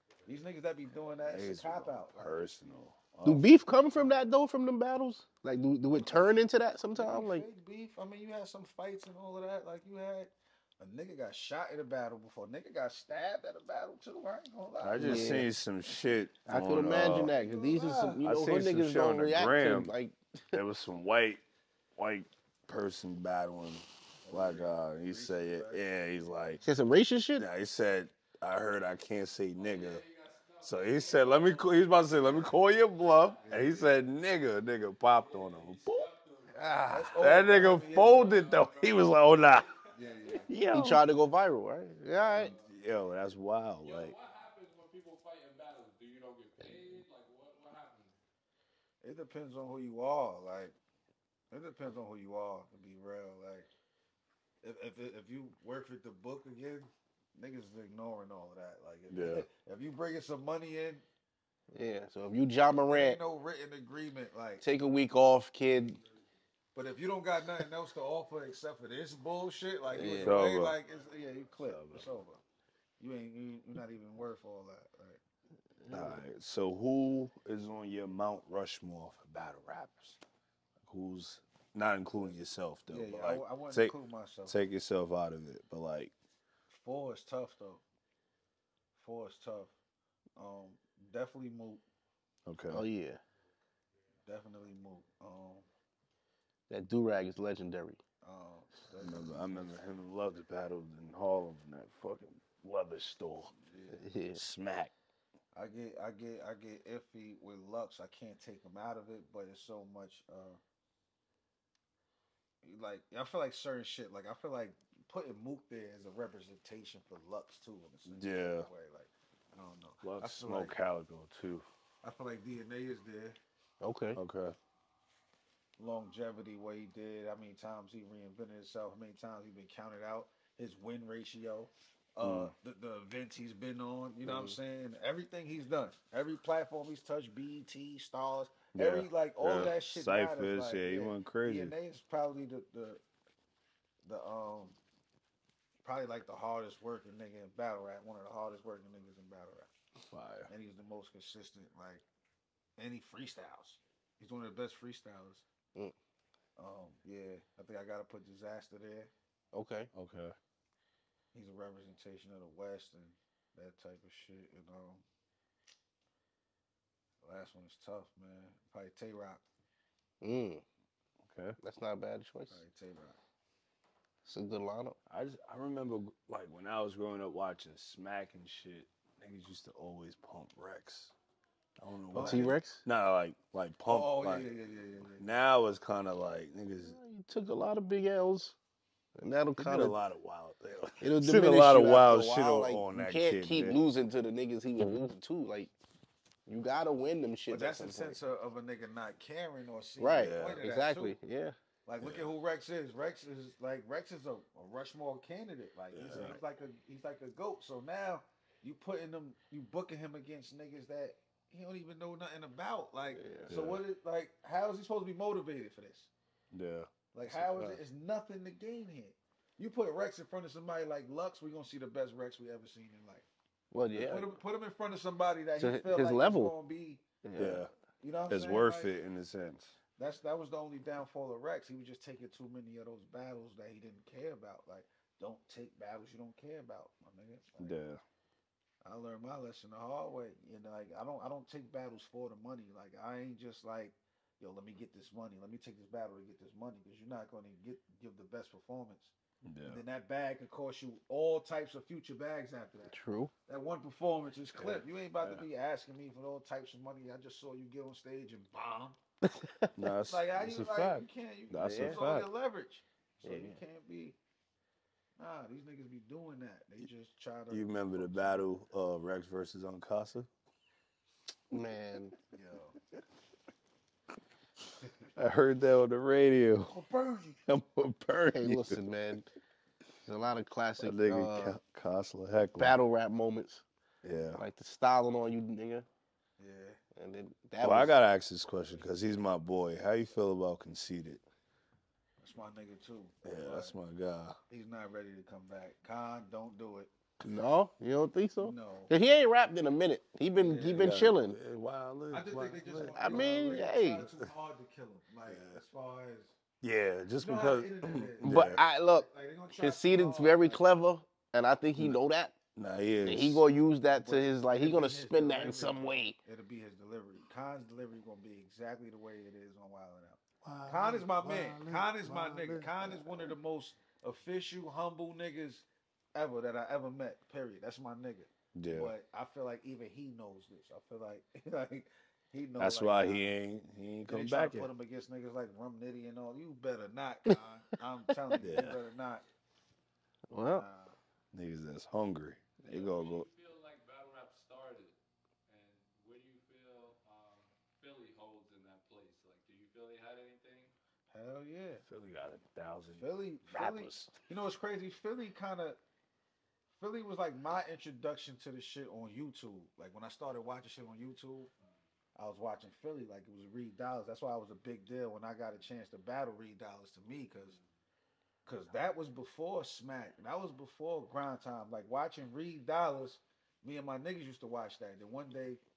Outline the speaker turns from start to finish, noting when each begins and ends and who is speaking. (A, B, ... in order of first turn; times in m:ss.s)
0:00.2-0:02.5 A
0:01.2-0:03.4 B
0:03.2-0:03.4 A
0:03.2-0:07.4 C
0:06.9-0:15.5 A
0:14.8-0:17.3 B
0:15.0-0:15.4 C
0:16.4-0:20.6 C
0:17.1-0:18.2 A
0:18.2-0:20.0 B
0:20.5-0:21.4 B
0:22.0-0:26.6 B
0:24.2-0:25.8 A
0:26.6-0:27.4 C
0:27.4-0:30.0 B
0:29.6-0:32.5 D
0:30.6-0:36.0 B
0:33.4-0:34.0 A
0:35.1-0:37.3 D
0:36.5-0:39.7 B
0:36.9-0:38.5 A
0:38.4-0:39.5 D
0:39.9-0:40.5 A
0:40.5-0:41.0 B
0:40.5-0:42.5 C
0:42.5-0:44.1 B
0:43.8-0:48.2 D
0:49.0-0:50.7 A
0:51.5-0:53.7 A
0:54.6-1:01.0 A
0:59.1-0:59.5 B
1:01.7-1:03.2 C
1:02.9-1:04.6 A
1:04.6-1:06.0 C
1:06.7-1:12.4 A
1:09.9-1:10.4 C
1:10.2-1:10.8 B
1:11.6-1:12.1 B
1:13.0-1:15.2 A
1:15.8-1:16.2 C
1:15.9-1:20.2 B
1:20.8-1:23.9 B
1:22.9-1:24.6 A
1:24.4-1:26.1 B
1:26.7-1:27.8 A
1:29.0-1:29.7 A
1:30.4-1:31.8 A
1:32.4-1:32.8 B
1:32.7-1:33.2 C
1:34.2-1:35.7 A
1:36.7-1:38.0 C
1:38.2-1:39.8 A
1:39.0-1:43.5 B
1:43.6-1:44.0 A
1:43.9-1:44.4 C
1:44.3-1:44.9 B
1:45.5-1:50.6 A
1:52.6-2:00.7 A
1:58.0-1:58.7 B
2:00.0-2:01.6 B
2:02.0-2:03.4 A
2:03.8-2:04.2 C
2:04.1-2:04.6 B
2:05.8-2:23.0 A
2:12.2-2:12.5 B
2:14.2-2:14.5 C
2:18.7-2:21.7 B
2:24.0-2:24.8 A
2:25.8-2:29.7 A
2:30.1-2:30.5 B
2:30.5-2:32.0 A
2:32.8-2:35.4 A
2:36.6-2:39.1 A
2:39.5-2:39.9 C
2:39.9-2:40.4 B
2:41.3-2:45.0 A
2:47.2-2:49.4 A
2:50.2-2:50.6 C
2:51.2-2:51.6 B
2:51.6-2:52.6 C
2:52.5-2:53.2 A
2:54.2-2:55.0 C
2:55.1-3:01.1 B
3:01.8-3:04.5 B
3:02.1-3:02.5 A
3:02.2-3:02.8 C
3:03.9-3:05.3 A
3:05.2-3:07.0 B
3:06.8-3:08.5 C
3:09.2-3:10.0 C
3:09.6-3:13.8 B
3:11.0-3:15.7 C
3:16.5-3:18.2 C
3:17.5-3:21.2 A
3:20.0-3:21.6 C
3:20.1-3:20.6 B
3:21.8-3:36.1 A
3:22.0-3:22.3 B
3:25.9-3:26.4 B
3:33.1-3:33.5 C
3:33.5-3:33.8 B
3:36.5-3:37.8 B
3:37.1-3:43.2 A
3:43.7-3:44.3 C
3:43.9-3:47.0 A
3:45.6-3:46.5 C
3:47.2-3:47.7 C
3:47.4-3:47.7 B
3:48.0-3:48.9 A
3:48.3-3:49.8 B
3:50.0-3:57.8 A
3:57.6-3:58.0 B
3:58.8-4:09.1 A
4:09.4-4:09.8 B
4:09.6-4:12.9 A
4:12.9-4:13.3 C
4:13.5-4:19.0 A
4:14.6-4:15.4 B
4:19.2-4:19.7 C
4:19.8-4:22.3 B
4:20.1-4:24.2 A
4:21.6-4:22.0 C
4:23.2-4:23.6 C
4:25.2-4:28.5 A
4:27.5-4:30.3 B
4:31.5-4:32.1 C
4:32.3-4:32.8 A
4:35.2-4:36.7 B
4:36.7-4:37.4 A
4:37.5-4:38.8 B
4:38.3-4:39.3 C
4:40.0-4:41.6 C
4:40.8-4:42.8 B
4:42.6-4:43.6 C
4:44.0-4:44.4 B
4:44.3-4:45.8 C
4:46.4-4:46.8 A
4:46.9-4:47.9 C
4:47.6-4:51.2 B
4:52.2-4:53.7 A
4:53.2-4:54.4 B
4:54.5-4:56.9 A
4:57.2-5:01.4 C
4:58.4-4:58.9 A
5:00.3-5:01.1 A
5:00.8-5:04.3 B
5:02.1-5:06.3 A
5:02.9-5:04.0 C
5:05.2-5:05.6 B
5:06.6-5:08.6 B
5:07.2-5:10.7 A
5:08.2-5:09.1 C
5:09.6-5:12.4 C
5:12.6-5:13.4 B
5:13.0-5:16.2 C
5:13.9-5:33.3 A
5:20.4-5:23.3 B
5:28.5-5:28.9 B
5:32.6-5:34.7 B
5:34.1-5:39.2 A
5:38.4-5:38.7 C
5:38.4-5:38.8 B
5:40.3-5:40.6 C
5:40.5-5:41.0 A
5:41.3-5:43.3 B
5:42.6-5:44.9 D
5:45.5-5:50.7 D
5:51.1-5:51.8 A
5:51.9-5:54.1 B
5:52.9-5:55.8 A
5:56.8-6:01.5 A
6:02.2-6:07.6 A
6:08.4-6:15.6 A